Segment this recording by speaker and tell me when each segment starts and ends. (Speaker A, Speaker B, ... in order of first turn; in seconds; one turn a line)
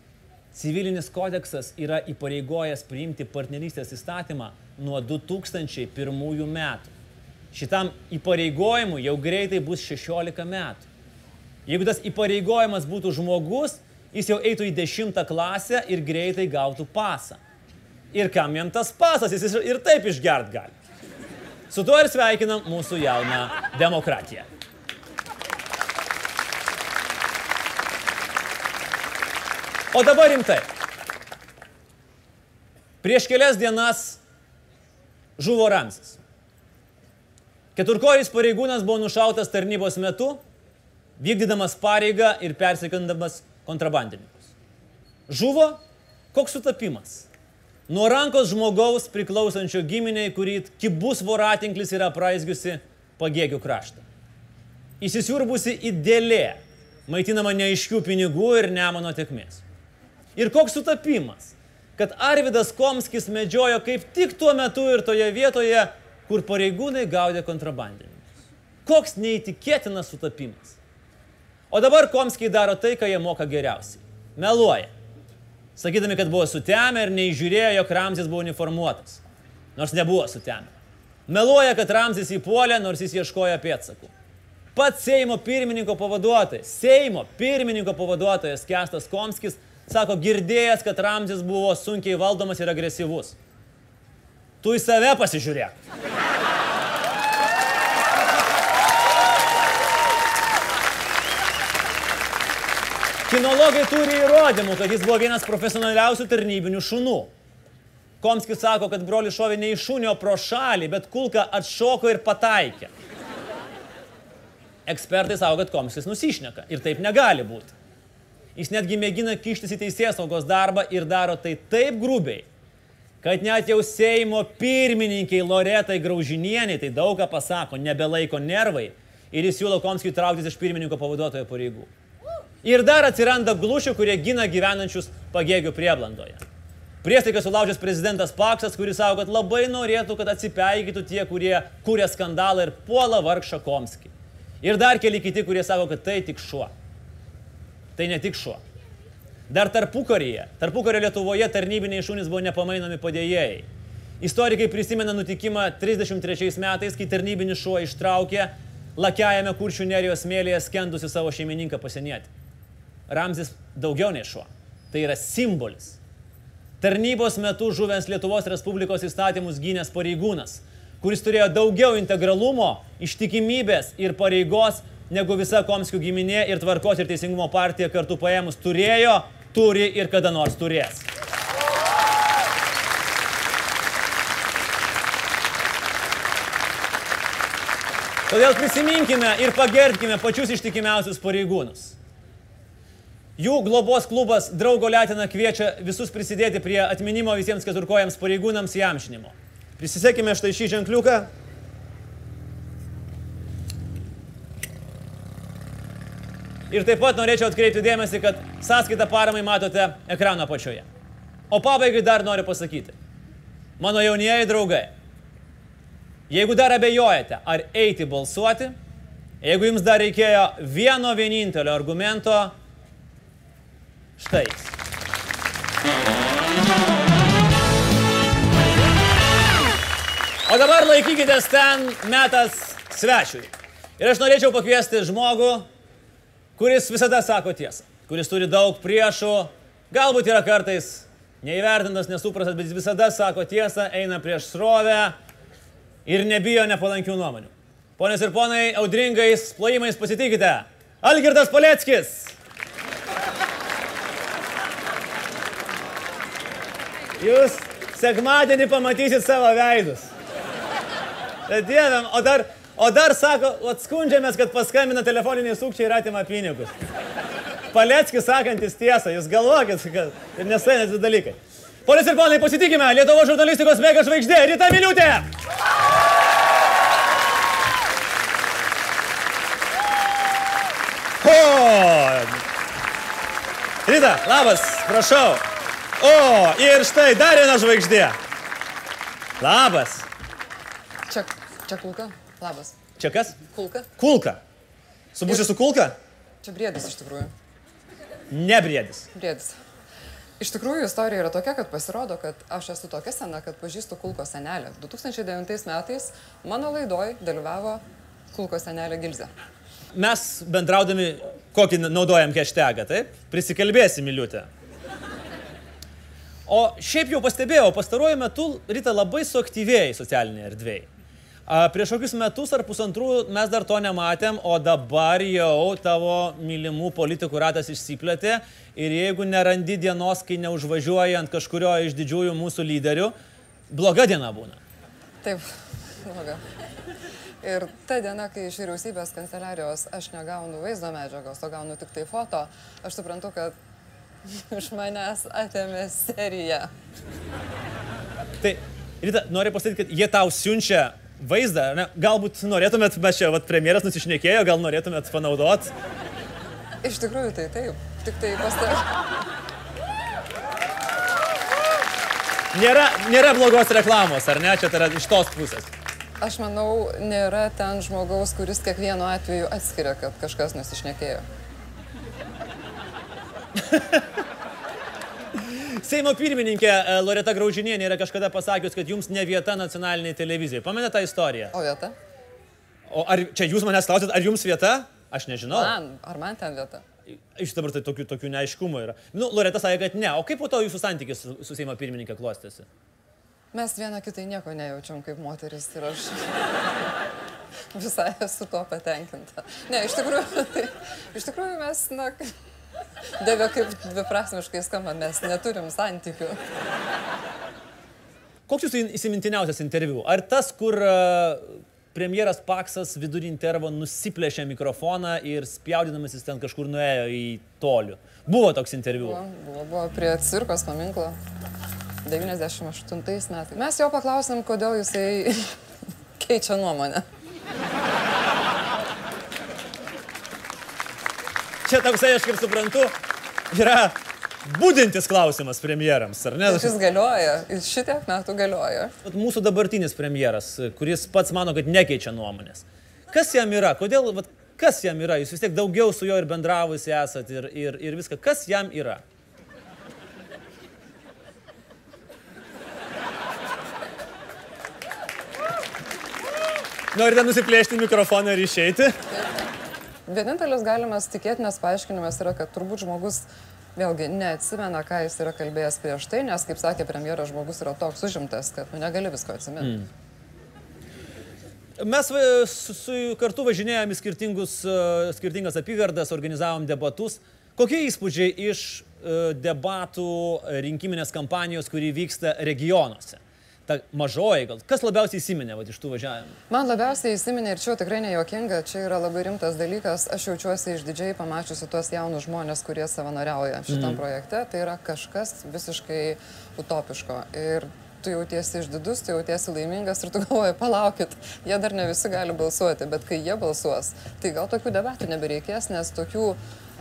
Speaker A: 0.5-6.9
Speaker A: 7.5-10.9
Speaker A: 11.7-17.4
Speaker A: 18.1-20.7
Speaker A: 21.7-24.5
Speaker A: 29.9-30.7
Speaker A: 33.0-34.2
Speaker A: 35.4-36.2
Speaker A: 37.8-40.4
Speaker A: 41.2-44.5
Speaker A: 45.3-45.8
Speaker A: 46.3-47.3
Speaker A: 47.9-54.0
Speaker A: 55.0-59.6
Speaker A: 60.4-68.2
Speaker A: 68.8-70.8
Speaker A: 71.7-74.9
Speaker A: 75.8-79.2
Speaker A: 79.8-80.7
Speaker A: 81.3-84.1
Speaker A: 84.8-93.3
Speaker A: 94.6-95.8
Speaker A: 103.3-107.3
Speaker A: 108.2-112.9
Speaker A: 114.9-117.7
Speaker A: 118.6-122.5
Speaker A: 123.2-131.9
Speaker A: 132.6-136.4
Speaker A: 137.0-144.1
Speaker A: 144.6-146.7
Speaker A: 148.0-148.6
Speaker A: 149.5-153.7
Speaker A: 154.2-162.3
Speaker A: 163.1-166.0
Speaker A: 166.8-181.1
Speaker A: 188.3-192.0
Speaker A: 193.4-201.3
Speaker A: 206.7-210.9
Speaker A: 211.5-212.9
Speaker A: 213.8-214.9
Speaker A: 216.3-218.8
Speaker A: 219.4-222.5
Speaker A: 224.2-224.7
Speaker A: 230.5-235.7
Speaker A: 236.6-245.2
Speaker A: 246.1-252.4
Speaker A: 257.2-260.1
Speaker A: 261.5-266.8
Speaker A: 267.7-275.3
Speaker A: 281.2-282.4
Speaker A: 283.9-285.4
Speaker A: 286.0-288.2
Speaker A: 289.4-290.1
Speaker B: 291.1-292.8
Speaker A: 293.0-293.4
Speaker B: 293.5-293.9
Speaker A: 294.0-294.4
Speaker A: 295.1-295.9
Speaker B: 295.3-295.5
Speaker B: 296.4-297.3
Speaker A: 298.3-299.1
Speaker B: 299.1-299.6
Speaker B: 300.4-307.8
Speaker B: 308.3-309.3
Speaker A: 309.9-314.5
Speaker A: 316.5-320.9
Speaker A: 321.5-333.1
Speaker A: 333.7-334.6
Speaker B: 336.1-336.4
Speaker B: 337.4-343.6
Speaker B: 344.3-346.7
Speaker A: 348.4-355.7
Speaker B: 356.8-358.8
Speaker A: 362.5-365.7
Speaker B: 366.2-371.2
Speaker A: 373.7-374.0
Speaker A: 375.4-381.6
Speaker B: 381.5-382.0
Speaker A: 382.9-385.7
Speaker B: 385.5-386.8
Speaker A: 387.3-392.7
Speaker B: 393.5-396.3
Speaker B: 397.7-402.2
Speaker B: 403.2-406.4
Speaker A: 408.5-419.2
Speaker B: 419.0-421.2
Speaker B: 422.1-425.5
Speaker B: 426.2-427.0
Speaker A: 431.6-432.9
Speaker A: 433.5-436.7
Speaker B: 436.5-438.9
Speaker A: 439.1-449.0
Speaker A: 456.9-458.9
Speaker B: 460.1-469.9
Speaker A: 469.6-469.9
Speaker A: 471.8-486.4
Speaker B: 486.5-506.4
Speaker A: 493.7-494.0